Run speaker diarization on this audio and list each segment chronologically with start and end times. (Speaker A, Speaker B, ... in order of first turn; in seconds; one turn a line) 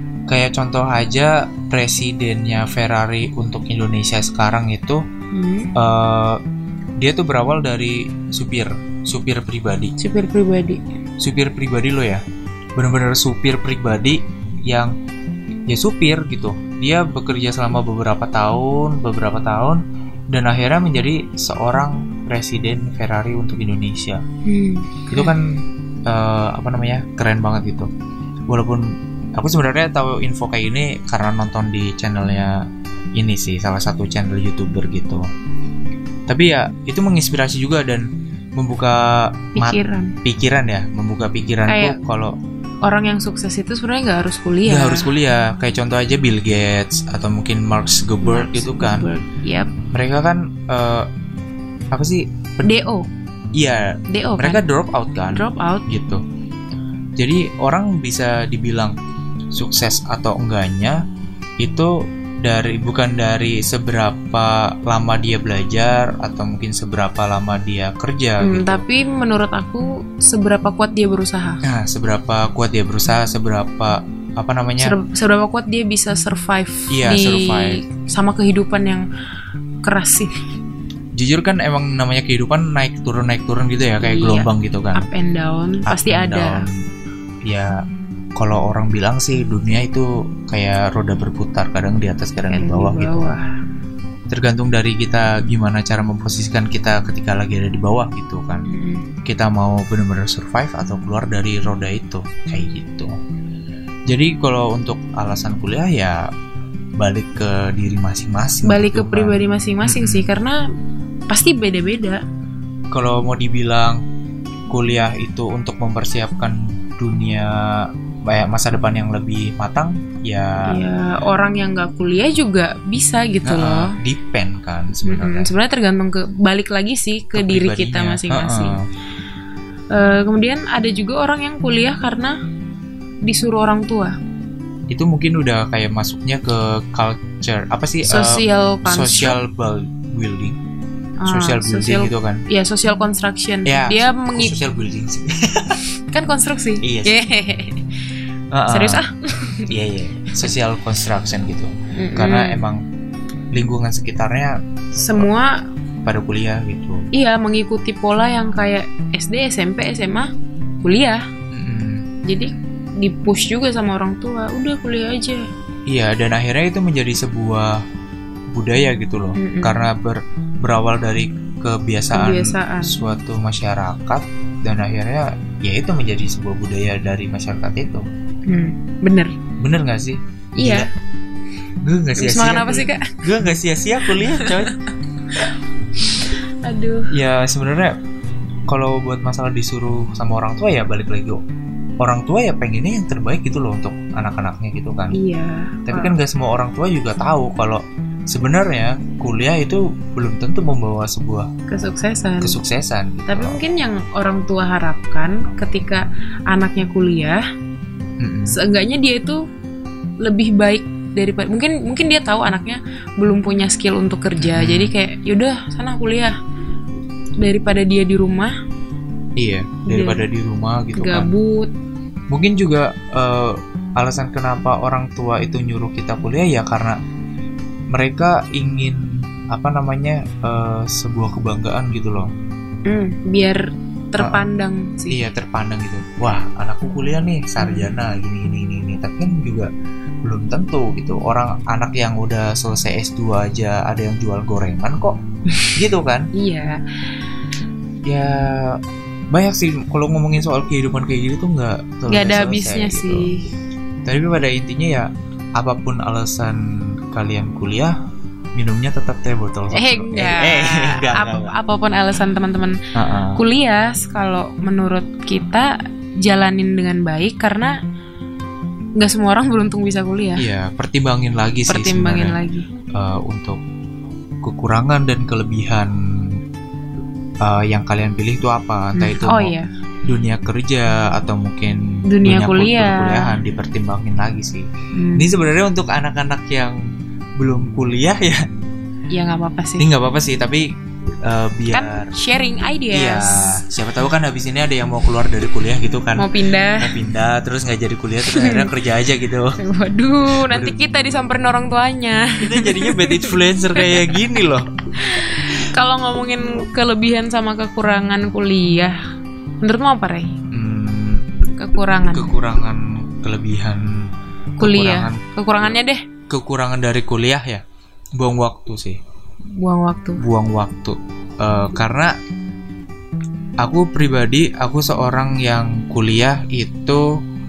Speaker A: 0.3-5.0
Speaker B: 5.3-5.7
Speaker A: 5.8-6.4
Speaker A: 7.0-9.9
Speaker B: 10.0-10.8
Speaker A: 11.2-12.2
Speaker A: 12.8-14.9
Speaker A: 15.7-24.2
Speaker B: 24.4-25.3
Speaker A: 25.1-27.9
Speaker A: 28.5-32.6
Speaker A: 33.2-35.2
Speaker A: 36.3-42.3
Speaker B: 39.5-40.1
Speaker B: 41.7-42.0
Speaker B: 42.8-45.1
Speaker A: 44.6-49.1
Speaker B: 48.2-49.7
Speaker A: 49.9-51.1
Speaker A: 51.9-52.7
Speaker B: 52.6-53.1
Speaker A: 53.5-56.2
Speaker B: 54.1-54.6
Speaker B: 55.3-55.9
Speaker A: 57.2-59.0
Speaker A: 59.5-61.0
Speaker A: 61.6-68.8
Speaker B: 68.4-71.6
Speaker A: 71.6-74.9
Speaker B: 74.8-79.0
Speaker A: 76.9-77.8
Speaker B: 79.8-80.3
Speaker A: 81.2-85.0
Speaker B: 84.0-86.7
Speaker A: 85.8-86.8
Speaker A: 87.5-87.7
Speaker A: 88.4-93.3
Speaker B: 92.5-93.5
Speaker A: 94.3-98.7
Speaker B: 98.7-99.0
Speaker A: 99.2-103.1
Speaker A: 104.1-106.2
Speaker A: 107.0-110.3
Speaker B: 108.6-110.6
Speaker B: 111.3-112.2
Speaker A: 112.9-114.0
Speaker A: 114.7-120.8
Speaker B: 120.6-124.0
Speaker A: 123.4-125.5
Speaker B: 125.0-128.8
Speaker A: 127.3-128.8
Speaker B: 129.9-132.3
Speaker B: 133.2-134.2
Speaker A: 134.9-140.6
Speaker B: 138.0-139.4
Speaker B: 141.2-144.6
Speaker A: 141.2-142.4
Speaker A: 143.7-145.8
Speaker B: 146.1-148.0
Speaker A: 146.8-147.2
Speaker A: 148.5-149.0
Speaker B: 148.7-149.8
Speaker A: 149.7-152.8
Speaker B: 151.9-152.6
Speaker A: 153.5-154.6
Speaker B: 155.0-155.6
Speaker A: 156.0-157.1
Speaker B: 157.1-160.3
Speaker B: 160.8-161.2
Speaker A: 161.5-162.0
Speaker B: 162.2-165.4
Speaker A: 165.9-167.8
Speaker A: 168.5-178.0
Speaker B: 169.3-169.8
Speaker B: 172.1-173.0
Speaker B: 178.5-179.3
Speaker A: 179.6-180.9
Speaker B: 180.6-180.9
Speaker A: 181.8-184.8
Speaker B: 182.2-183.5
Speaker B: 184.1-184.7
Speaker B: 186.1-187.1
Speaker A: 187.1-187.9
Speaker A: 188.7-191.4
Speaker A: 192.0-195.2
Speaker B: 195.1-196.1
Speaker A: 195.9-201.5
Speaker B: 201.7-202.6
Speaker A: 202.4-203.6
Speaker B: 203.3-207.4
Speaker A: 208.2-208.6
Speaker B: 208.5-209.4
Speaker B: 210.2-216.3
Speaker A: 214.4-214.9
Speaker B: 217.4-218.5
Speaker A: 219.4-221.3
Speaker B: 219.8-220.2
Speaker B: 220.9-221.7
Speaker A: 222.3-227.0
Speaker A: 227.9-232.3
Speaker B: 232.8-235.2
Speaker A: 234.2-234.4
Speaker A: 235.1-239.7
Speaker B: 237.6-237.9
Speaker A: 240.2-245.2
Speaker A: 245.7-246.3
Speaker B: 246.3-246.8
Speaker A: 248.1-248.8
Speaker A: 249.3-253.3
Speaker B: 252.1-253.5
Speaker A: 254.0-257.9
Speaker A: 258.5-261.5
Speaker B: 259.7-262.8
Speaker A: 262.9-263.4
Speaker B: 263.3-267.8
Speaker B: 269.0-270.4
Speaker A: 270.4-272.4
Speaker B: 271.7-272.6
Speaker A: 272.9-273.6
Speaker A: 274.4-275.9
Speaker A: 277.4-279.5
Speaker B: 278.9-279.7
Speaker A: 280.0-286.8
Speaker B: 282.1-283.4
Speaker B: 284.9-285.3
Speaker A: 287.4-288.4
Speaker B: 289.1-289.8
Speaker A: 289.8-290.6
Speaker A: 291.2-292.1
Speaker B: 291.7-293.6
Speaker A: 292.9-299.6
Speaker B: 296.1-296.9
Speaker B: 298.2-298.7
Speaker B: 299.6-304.4
Speaker A: 300.4-300.8
Speaker A: 302.4-304.7
Speaker B: 304.9-309.0
Speaker B: 309.6-310.4
Speaker A: 310.5-311.2
Speaker B: 311.6-312.3
Speaker A: 312.1-315.8
Speaker B: 314.6-316.0
Speaker A: 316.3-317.6
Speaker A: 318.2-319.0
Speaker B: 319.6-320.2
Speaker A: 320.2-322.1
Speaker A: 323.6-327.1